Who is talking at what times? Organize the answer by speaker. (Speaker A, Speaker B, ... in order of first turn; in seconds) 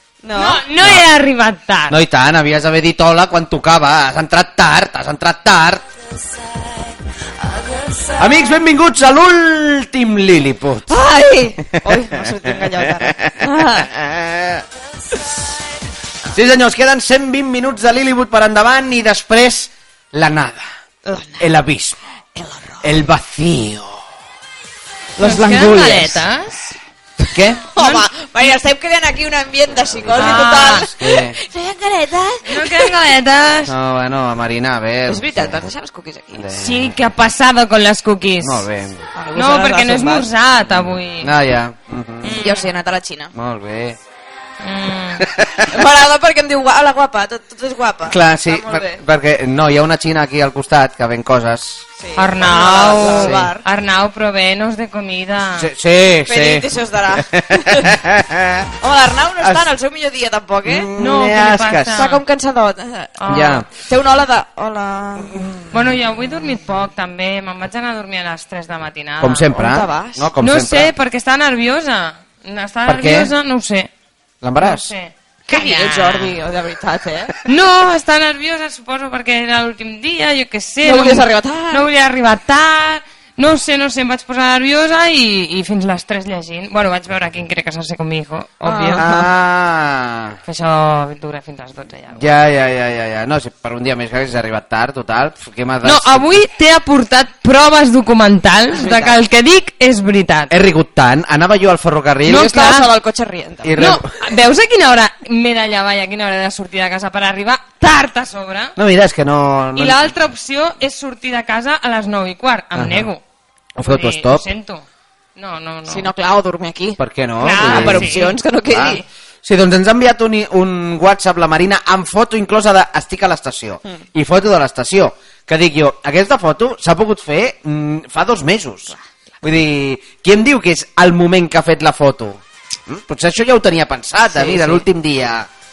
Speaker A: 0.2-0.6, 6.1-8.6, 10.9-13.9, 21.0-21.5, 22.3-22.9, 27.6-32.9, 35.1-36.5, 39.1-40.3, 42.3-43.3, 45.7-49.0, 52.0-53.6, 56.2-58.0, 58.8-60.9, 61.9-65.5, 69.5-70.3, 75.5-77.3, 80.8-81.8, 88.6-89.3, 98.7-99.2, 102.3-103.8, 115.9-119.0, 134.3-134.8
Speaker B: 0.3-2.0, 25.2-26.8, 27.8-28.5, 30.1-30.9, 32.4-33.7, 36.5-38.6, 39.3-41.3, 42.2-42.7, 44.6-45.3, 52.2-55.7, 61.0-62.2, 63.2-63.6, 65.7-69.5, 70.4-73.9, 74.6-76.4, 77.4-89.0, 90.5-92.2, 95.8-100.5, 102.3-102.9, 103.8-108.7, 109.7-113.2, 113.8-116.1, 117.4-118.3
Speaker C: 1.9-5.8, 8.2-10.9, 11.7-14.6, 16.3-20.6, 21.4-22.0, 22.8-24.1, 25.2-26.2, 27.3-27.6, 29.7-31.4, 33.7-35.7, 36.3-37.0, 38.4-39.1, 40.6-42.4, 43.3-44.0, 45.2-45.7, 48.1-51.9, 52.8-53.5, 55.6-58.7, 59.4-59.7, 60.6-62.1, 63.3-63.7, 65.3-65.6, 69.2-70.9, 72.8-73.3, 74.4-74.9, 89.0-90.4, 92.1-96.4, 100.5-102.5, 103.6-104.1, 108.8-110.1, 112.7-113.1, 113.7-114.5, 117.0-118.1, 118.7-135.5